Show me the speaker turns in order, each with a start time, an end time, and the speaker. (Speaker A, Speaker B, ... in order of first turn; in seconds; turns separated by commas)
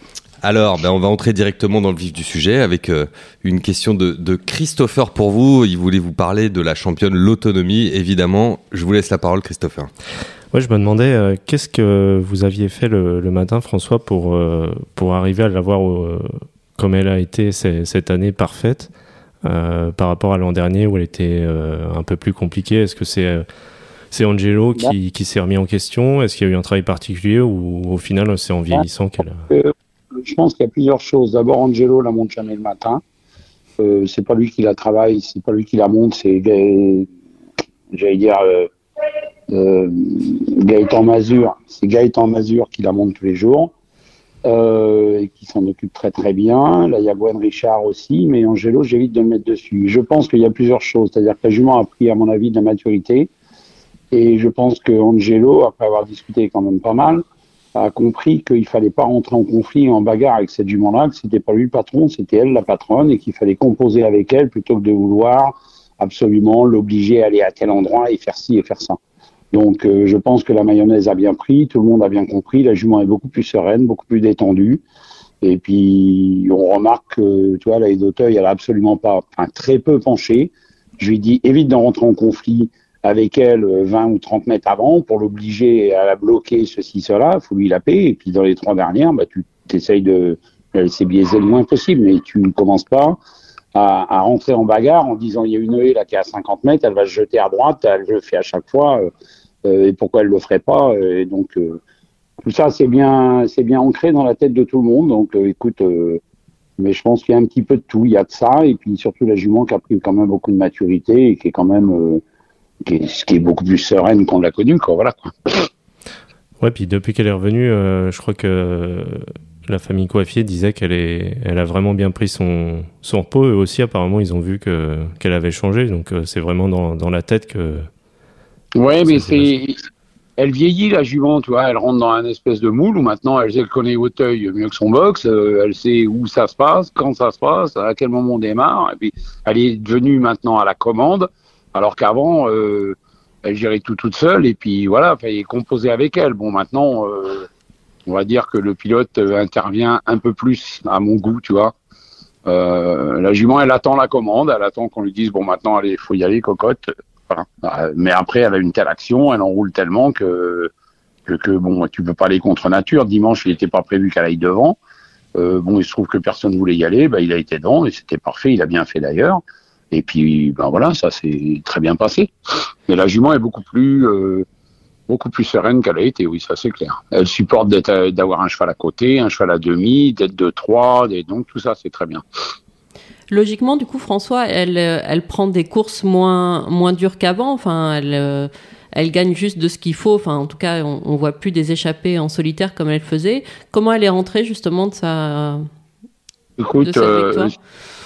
Speaker A: 0.4-9.9, Speaker B: 10.5-18.9, Speaker B: 19.4-23.5, Speaker B: 24.1-29.4, Speaker C: 29.5-33.0, Speaker C: 33.8-37.1, Speaker C: 37.9-38.7, Speaker C: 39.5-43.7, Speaker C: 44.5-53.3, Speaker C: 54.1-57.2, Speaker C: 57.8-69.0, Speaker C: 69.5-74.8, Speaker C: 75.4-93.2, Speaker C: 93.8-99.1, Speaker C: 99.7-101.8, Speaker C: 102.4-106.2, Speaker C: 106.8-112.2, Speaker C: 112.9-115.7, Speaker B: 116.6-127.9, Speaker C: 128.8-129.8, Speaker B: 129.1-129.5, Speaker C: 130.4-147.5, Speaker C: 148.1-151.7, Speaker C: 152.5-160.7, Speaker C: 161.3-164.8, Speaker C: 165.4-169.4, Speaker C: 169.9-172.3, Speaker C: 172.9-174.5, Speaker C: 175.1-182.2, Speaker D: 183.3-195.7, Speaker C: 196.6-197.5, Speaker D: 196.8-197.5